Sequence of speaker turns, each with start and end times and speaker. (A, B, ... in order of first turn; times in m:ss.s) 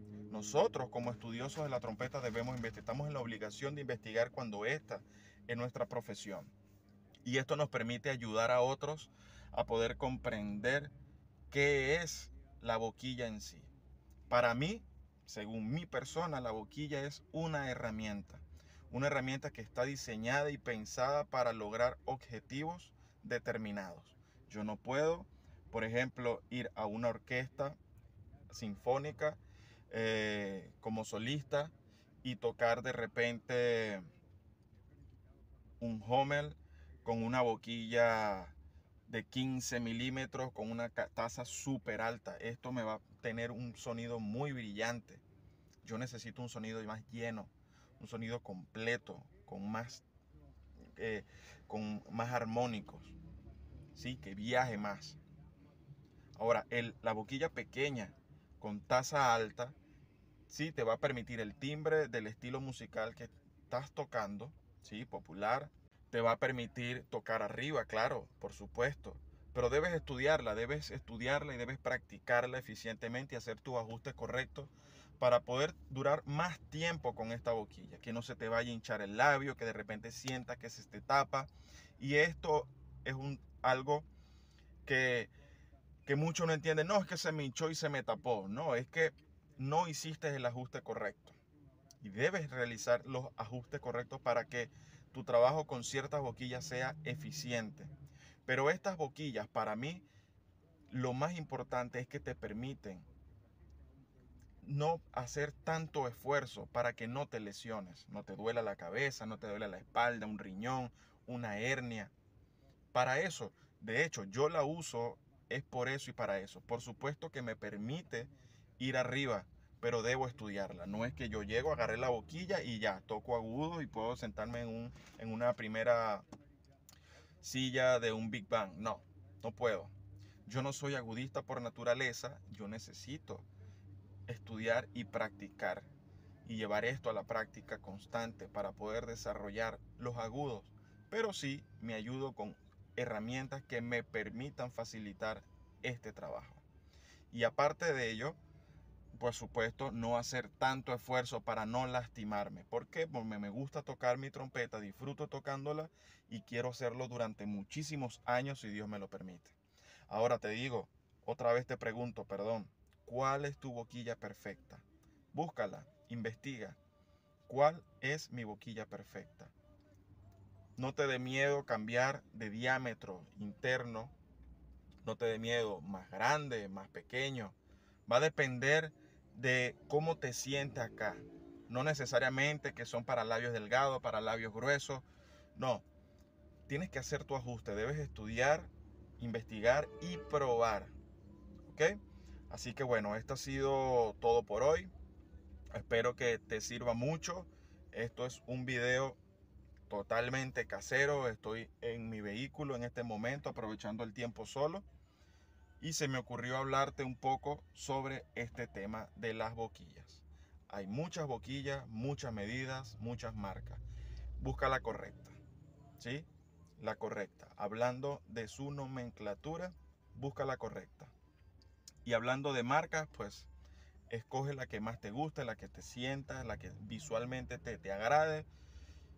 0:00.3-0:06.5 A
0:07.2-0:10.9 A
0:11.5-0:13.7 A
0:14.3-0:27.8 A
0:28.5-0:34.1 A
0:35.8-0:38.5 A
0:39.1-0:45.2 A
0:45.8-0:50.0 A
0:51.0-0:53.1 A
0:53.9-0:55.2 A
0:56.4-0:59.8 A
1:00.5-1:24.1 A
1:24.8-1:25.3 A
1:26.0-1:31.4 A
1:32.0-1:37.9 A
1:38.4-1:40.0 A
1:40.9-1:43.0 A
1:44.6-1:52.1 A
1:52.9-2:06.2 A
2:07.4-2:09.9 A
2:10.4-2:13.5 A
2:14.3-2:15.9 A
2:16.4-2:26.6 A
2:27.3-2:28.4 A
2:29.1-2:39.6 A
2:40.1-2:46.8 A
2:47.4-2:49.5 A
2:50.8-2:54.1 A
2:55.0-2:57.6 A
2:58.1-3:05.8 A
3:06.7-3:10.9 A
3:11.7-3:14.9 A
3:15.7-3:19.2 A
3:19.9-3:24.8 A
3:25.8-3:33.8 A
3:34.4-3:35.4 A
3:36.0-3:36.3 A
3:36.8-3:41.1 A
3:42.0-3:43.5 A
3:44.1-3:48.5 A